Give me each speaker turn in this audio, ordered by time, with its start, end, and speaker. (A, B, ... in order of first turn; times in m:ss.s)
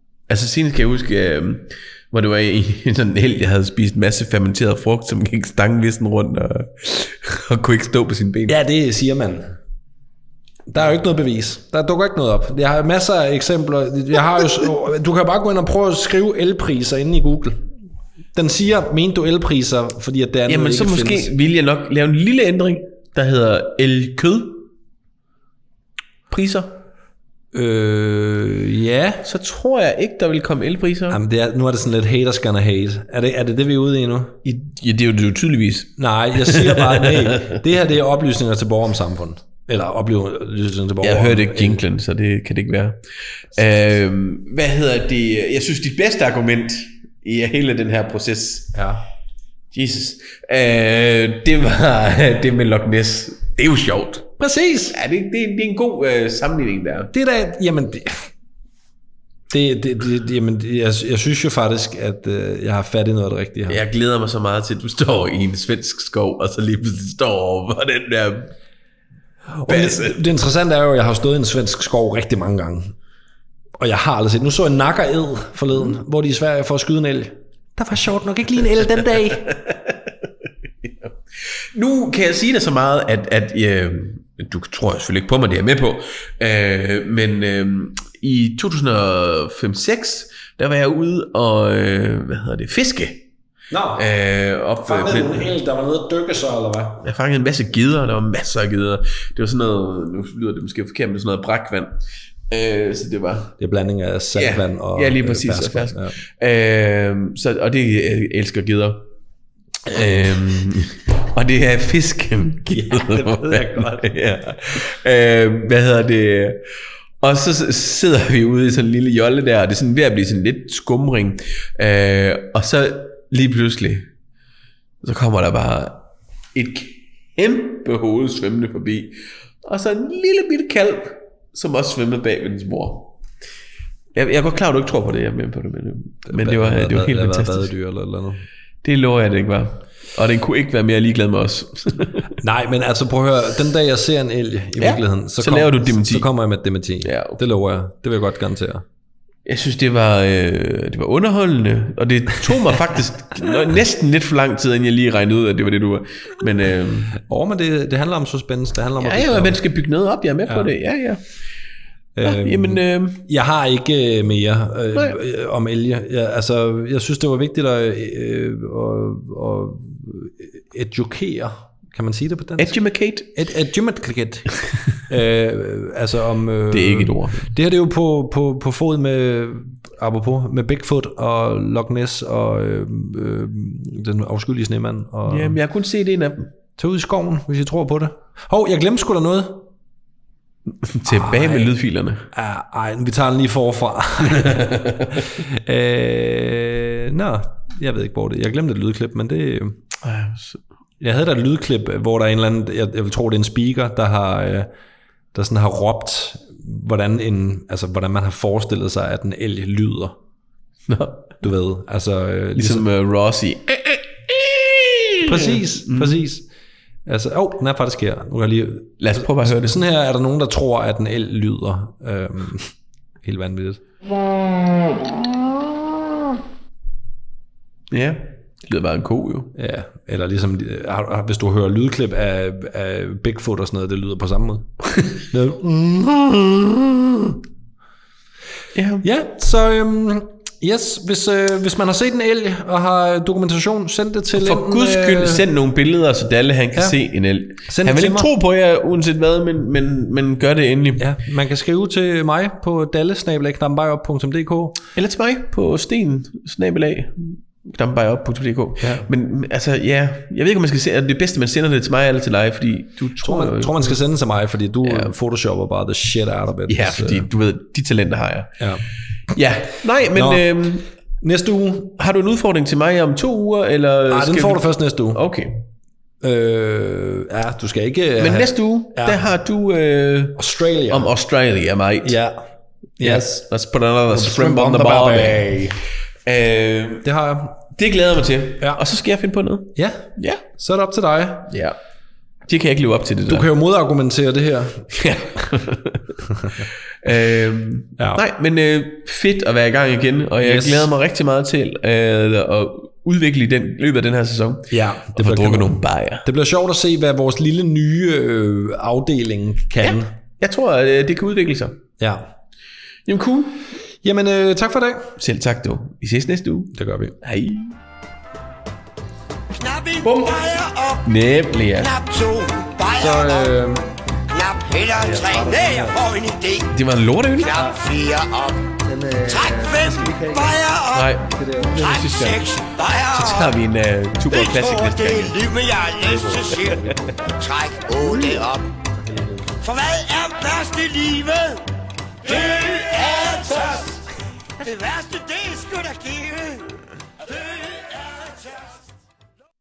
0:00.3-0:08.6 A
0:08.5-0:09.6 B
0:10.7-0:17.7 B
0:18.3-0:21.3 B
0:20.5-0:24.7 A
0:26.3-0:26.8 A
0:27.5-0:29.2 B
0:29.2-0:31.2 A
0:31.1-0:34.4 B
0:34.4-0:37.5 A
0:36.0-0:41.8 B
0:41.0-0:48.8 A
0:48.7-0:49.0 B
0:49.7-0:54.3 A
0:54.4-0:55.0 B
0:54.9-0:57.1 A
0:57.1-0:58.3 B
0:59.5-1:03.8 B
1:03.7-1:08.5 A
1:09.5-1:12.9 B
1:09.7-1:10.2 A
1:13.8-1:19.5 B
1:19.5-1:20.1 A
1:20.8-1:21.1 A
1:21.7-1:33.2 A
1:33.7-1:34.0 B
1:34.0-1:35.5 A
1:34.8-1:37.0 B
1:37.0-1:43.5 A
1:43.6-1:46.2 B
1:44.3-1:49.0 A
1:49.8-1:56.6 A
1:52.7-1:54.1 B
1:57.2-2:04.1 A
2:05.0-2:13.2 A
2:14.1-2:17.7 A
2:16.2-2:18.5 B
2:18.8-2:22.2 A
2:22.4-2:28.8 B
2:24.8-2:26.3 A
2:27.0-2:27.4 A
2:29.4-2:37.1 A
2:37.2-2:39.6 B
2:39.0-2:41.2 A
2:40.5-2:40.7 B
2:42.1-2:52.8 B
2:42.2-2:43.2 A
2:52.6-2:53.4 A
2:53.3-2:54.5 B
2:55.0-3:05.6 B
2:56.7-2:57.4 A
3:05.3-3:06.5 A
3:06.8-3:09.6 B
3:10.8-3:12.2 A
3:11.1-3:11.7 B
3:12.3-3:19.8 B
3:20.0-3:20.6 A
3:21.0-3:24.7 B
3:25.3-3:30.2 B
3:30.9-3:31.4 A
3:31.4-3:32.8 B
3:32.6-3:36.2 A
3:35.2-3:36.5 B
3:37.0-3:43.8 B
3:39.0-3:39.8 A
3:47.9-3:49.5 A
3:49.5-3:57.4 B
3:58.7-3:59.0 A
3:59.0-4:05.4 B
4:04.3-4:11.1 A
4:07.6-4:08.3 B
4:11.0-4:14.8 B
4:15.0-4:24.0 A
4:18.8-4:19.1 B
4:23.2-4:27.2 B
4:24.8-4:25.1 A
4:26.7-4:28.6 A
4:29.3-4:30.8 A
4:30.1-4:32.0 B
4:32.0-4:35.6 A
4:34.1-4:35.2 B
4:36.2-4:39.2 B
4:38.2-4:42.2 A
4:40.4-4:41.1 B
4:42.0-4:42.5 B
4:43.0-4:43.5 B
4:43.0-4:45.6 A
4:44.1-4:45.8 B
4:46.2-4:47.0 A
4:47.0-4:47.6 B
4:47.7-4:50.4 A
4:49.7-4:51.5 B
4:51.5-4:51.8 A
4:52.4-4:53.5 A
4:53.3-4:55.0 B
4:54.9-4:56.2 A
4:57.0-5:06.2 A
4:58.0-4:58.2 B
5:00.4-5:00.9 B
5:04.7-5:10.2 B
5:09.8-5:11.8 A
5:12.0-5:12.3 B
5:13.0-5:13.6 A
5:14.0-5:15.1 B
5:15.2-5:17.7 A
5:16.7-5:17.2 B
5:19.5-5:21.1 C
5:20.0-5:20.4 A
5:21.0-5:21.9 A
5:21.8-5:23.5 C
5:23.0-5:23.9 B
5:24.3-5:26.7 C
5:25.0-5:26.0 B
5:26.7-5:27.6 A
5:27.4-5:31.2 C
5:28.8-5:30.6 B
5:30.9-5:32.4 A
5:31.3-5:31.8 B
5:31.7-5:33.5 C
5:33.1-5:35.4 A
5:34.3-5:38.7 C
5:36.0-5:37.0 B
5:38.1-5:38.4 B
5:38.9-5:39.6 B
5:39.6-5:41.6 C
5:42.2-5:44.1 C
5:44.6-5:48.8 C